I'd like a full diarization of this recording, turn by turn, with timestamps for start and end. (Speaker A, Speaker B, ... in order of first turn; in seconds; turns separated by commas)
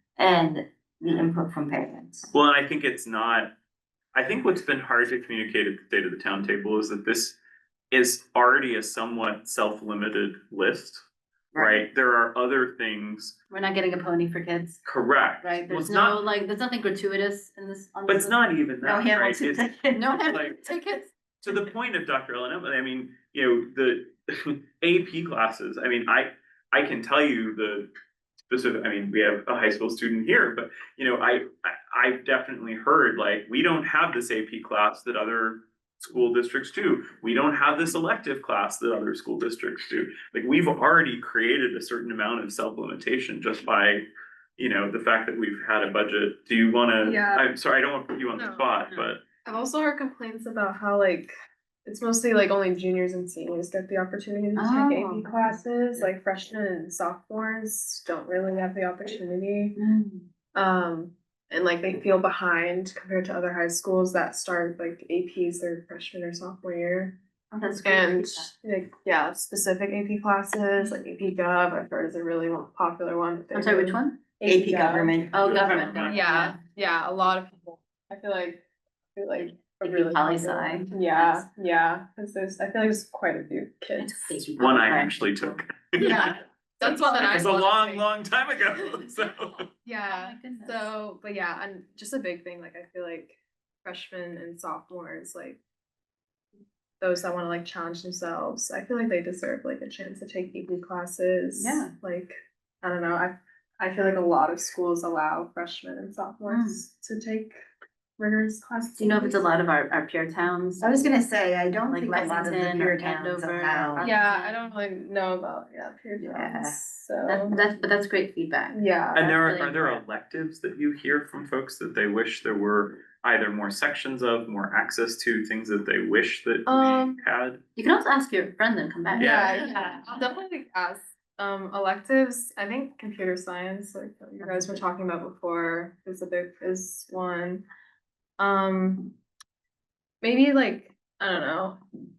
Speaker A: 0.2-2.3, Speaker B: 2.3-3.5, Speaker B: 4.1-7.4, Speaker B: 7.9-11.0, Speaker B: 11.6-13.4, Speaker C: 13.5-14.8, Speaker B: 14.8-16.2, Speaker C: 15.4-18.4, Speaker B: 18.1-20.7, Speaker A: 18.8-20.5, Speaker C: 19.9-21.1, Speaker B: 21.4-27.9, Speaker B: 28.5-49.2, Speaker D: 47.0-47.5, Speaker D: 48.3-48.7, Speaker D: 49.5-51.3, Speaker D: 51.9-59.8, Speaker A: 54.6-55.4, Speaker A: 59.8-60.2, Speaker D: 60.5-75.2, Speaker C: 67.5-68.5, Speaker C: 73.5-74.3, Speaker A: 74.5-75.3, Speaker C: 75.3-76.6, Speaker B: 75.3-76.2, Speaker D: 76.0-78.6, Speaker D: 79.2-84.4, Speaker C: 79.8-81.5, Speaker C: 84.0-86.2, Speaker B: 84.6-89.5, Speaker D: 86.0-88.1, Speaker D: 89.8-95.6, Speaker C: 90.0-90.9, Speaker D: 97.0-107.6, Speaker C: 101.6-101.9, Speaker C: 106.5-106.8, Speaker D: 108.2-109.5, Speaker C: 109.0-111.1, Speaker A: 110.8-114.1, Speaker C: 111.9-114.6, Speaker D: 114.0-117.6, Speaker A: 116.2-116.8, Speaker C: 117.3-120.0, Speaker D: 118.7-119.2, Speaker B: 119.1-127.6, Speaker D: 126.7-127.2, Speaker C: 127.8-130.2, Speaker D: 129.2-137.7, Speaker B: 129.2-129.6, Speaker C: 134.4-134.8, Speaker D: 138.4-139.1, Speaker D: 140.2-141.8